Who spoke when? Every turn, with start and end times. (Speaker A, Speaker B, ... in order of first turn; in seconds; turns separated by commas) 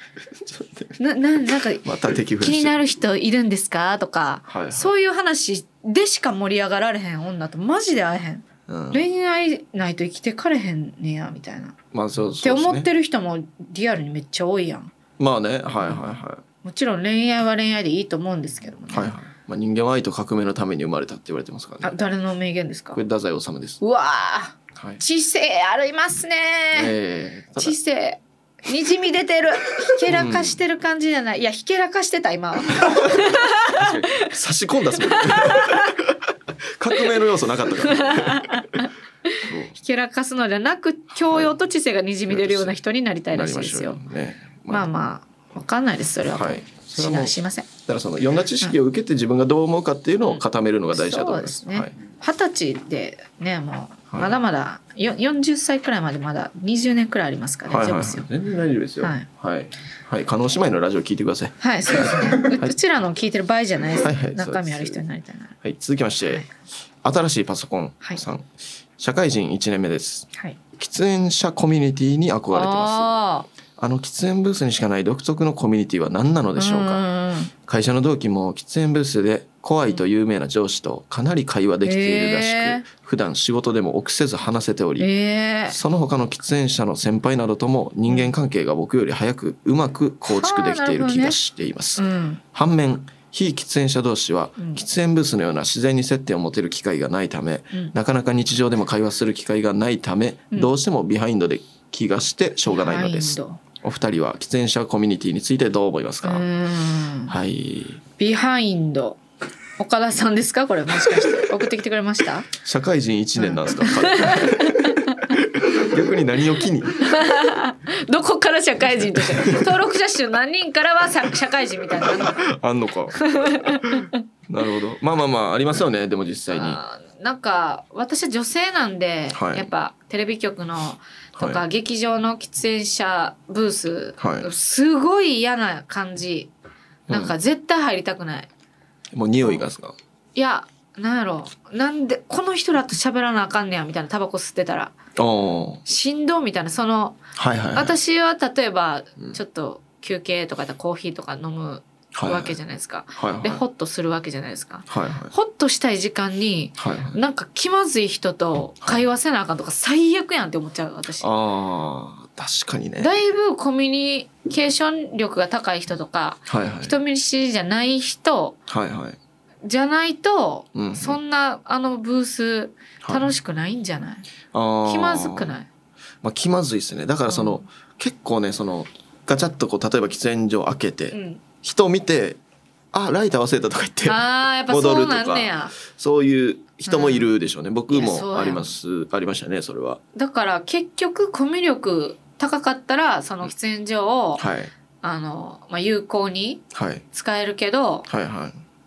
Speaker A: 0.4-0.9, Speaker B: 1.0-1.9, Speaker A: 1.8-2.8, Speaker B: 2.4-11.8, Speaker A: 4.5-4.9, Speaker A: 8.7-9.1, Speaker A: 11.9-12.9, Speaker B: 12.4-14.9, Speaker A: 15.2-16.4, Speaker B: 16.6-19.1, Speaker A: 18.9-21.9, Speaker B: 21.8-23.0, Speaker A: 22.9-23.8, Speaker B: 23.8-26.9, Speaker A: 24.8-25.0, Speaker A: 26.7-27.8, Speaker B: 27.6-34.4, Speaker A: 30.1-30.6, Speaker A: 32.8-38.7, Speaker B: 35.0-36.0, Speaker B: 37.8-44.0, Speaker A: 39.4-39.8, Speaker A: 41.2-41.5, Speaker A: 42.3-42.8, Speaker A: 43.3-44.9, Speaker B: 44.7-47.7, Speaker A: 46.3-51.9, Speaker B: 50.2-58.3, Speaker A: 54.1-54.4, Speaker A: 57.7-62.8, Speaker B: 59.0-59.3, Speaker B: 61.6-65.6, Speaker A: 63.9-65.0, Speaker A: 65.6-66.5, Speaker A: 67.0-73.2, Speaker B: 72.5-73.5, Speaker A: 73.8-77.0, Speaker B: 76.6-77.5, Speaker A: 77.6-85.1, Speaker B: 81.8-82.9, Speaker B: 85.0-85.8, Speaker A: 85.7-106.5, Speaker B: 90.3-91.4, Speaker B: 92.0-92.4, Speaker B: 102.7-103.6, Speaker B: 106.2-107.3, Speaker A: 107.3-108.0, Speaker B: 108.2-109.2, Speaker B: 109.8-112.5, Speaker A: 111.0-111.5, Speaker A: 112.6-117.2, Speaker B: 113.4-115.4, Speaker B: 117.0-122.5, Speaker A: 118.9-119.7, Speaker A: 122.0-126.8, Speaker B: 123.2-124.2, Speaker B: 126.5-136.5, Speaker A: 129.3-129.7, Speaker A: 131.4-131.6, Speaker A: 134.2-134.5, Speaker A: 137.1-137.3, Speaker B: 137.1-138.5, Speaker A: 139.1-139.9, Speaker B: 140.3-144.9, Speaker A: 145.2-145.8, Speaker B: 145.9-147.2, Speaker A: 147.3-148.0, Speaker B: 147.7-161.3, Speaker A: 152.2-152.6, Speaker A: 153.2-153.6, Speaker A: 154.9-155.3, Speaker A: 156.8-157.2, Speaker A: 161.2-163.2, Speaker B: 163.0-168.6, Speaker A: 166.5-167.0, Speaker A: 168.7-169.2, Speaker B: 169.6-174.3, Speaker A: 170.8-171.2, Speaker A: 173.0-173.3, Speaker A: 174.5-175.5, Speaker B: 174.8-175.7, Speaker A: 176.2-182.4, Speaker B: 177.3-177.6, Speaker B: 181.1-181.4, Speaker A: 182.9-190.0, Speaker B: 184.1-185.8, Speaker B: 186.9-187.3, Speaker B: 187.9-188.7, Speaker B: 190.2-194.5, Speaker A: 194.4-194.7, Speaker B: 195.0-198.1, Speaker A: 196.7-197.0, Speaker A: 198.1-198.6